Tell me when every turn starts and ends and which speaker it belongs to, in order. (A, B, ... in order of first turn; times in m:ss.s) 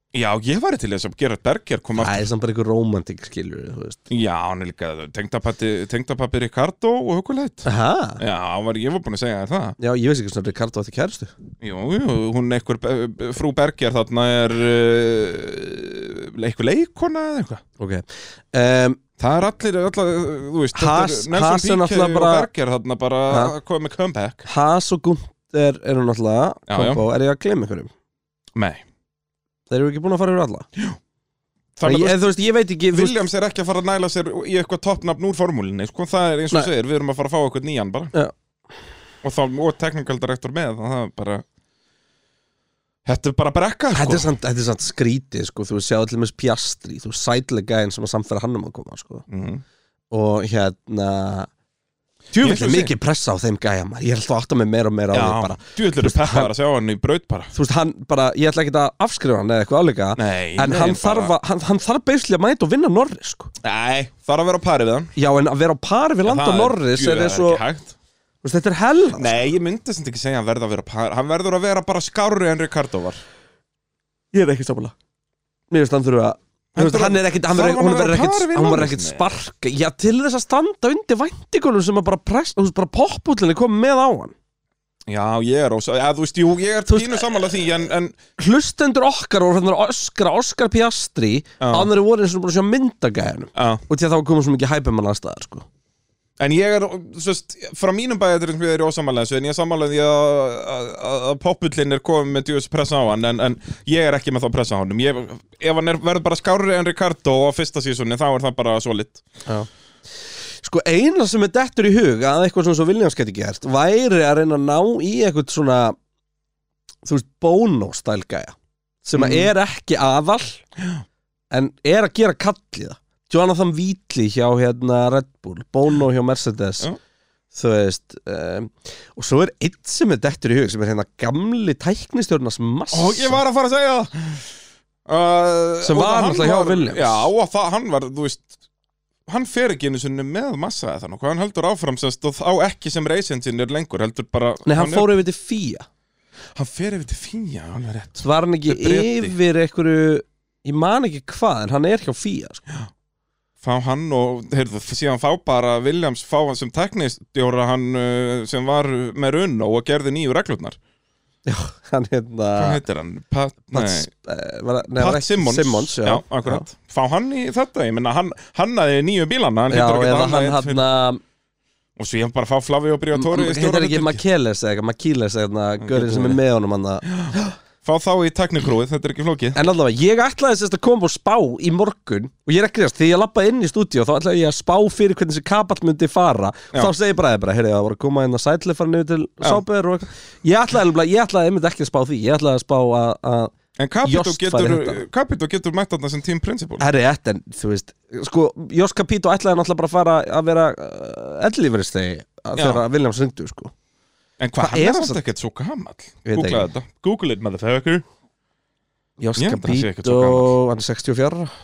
0:00.1-0:02.3 A
0:02.0-0:04.0 B
0:04.1-0:07.7 A
0:07.6-0:08.2 B
0:08.2-0:09.8 A
0:09.8-0:11.3 B
0:11.6-0:17.6 A
0:17.8-0:19.0 B
0:19.2-0:24.4 A
0:20.8-0:22.5 B
0:24.4-0:27.9 B
0:26.7-0:27.0 A
0:28.6-0:28.8 A
0:29.7-0:30.7 B
0:31.8-0:32.2 A
0:31.8-0:33.2 B
0:32.9-0:38.1 A
0:39.2-0:41.4 A
0:43.0-0:44.3 A
0:43.9-0:49.2 B
0:49.3-0:49.6 A
0:50.1-0:51.5 B
0:52.3-0:56.5 B
0:52.4-0:52.9 A
0:55.1-0:57.5 A
0:57.5-1:03.5 B
1:00.2-1:01.3 A
1:03.6-1:05.1 A
1:05.2-1:07.6 B
1:06.3-1:07.9 A
1:08.4-1:09.3 B
1:09.2-1:13.2 A
1:14.3-1:14.9 B
1:15.7-1:24.3 B
1:16.8-1:19.3 A
1:25.1-1:28.2 A
1:26.9-1:27.3 B
1:28.4-1:35.7 B
1:31.6-1:31.9 A
1:33.6-1:33.8 A
1:36.4-1:49.2 A
1:50.6-1:56.0 B
1:57.0-2:00.6 B
1:59.1-1:59.5 A
2:00.8-2:01.0 A
2:01.5-2:06.9 B
2:07.5-2:13.4 B
2:12.9-2:14.5 A
2:15.1-2:18.5 A
2:15.8-2:17.3 B
2:19.3-2:25.1 A
2:24.7-2:25.9 B
2:26.6-2:29.4 A
2:28.2-2:32.6 B
2:33.6-2:40.8 A
2:41.5-2:42.8 B
2:42.6-2:44.1 A
2:43.7-2:46.7 B
2:45.0-2:50.8 A
2:49.7-2:51.2 B
2:52.0-2:54.2 A
2:53.1-2:57.6 B
2:55.8-2:56.4 A
2:57.1-2:59.6 A
2:59.6-3:15.0 B
3:13.8-3:16.8 A
3:16.8-3:23.7 B
3:22.6-3:22.8 A
3:24.4-3:28.0 A
3:24.6-3:25.2 B
3:26.2-3:26.7 B
3:29.2-3:31.5 B
3:29.4-3:30.6 A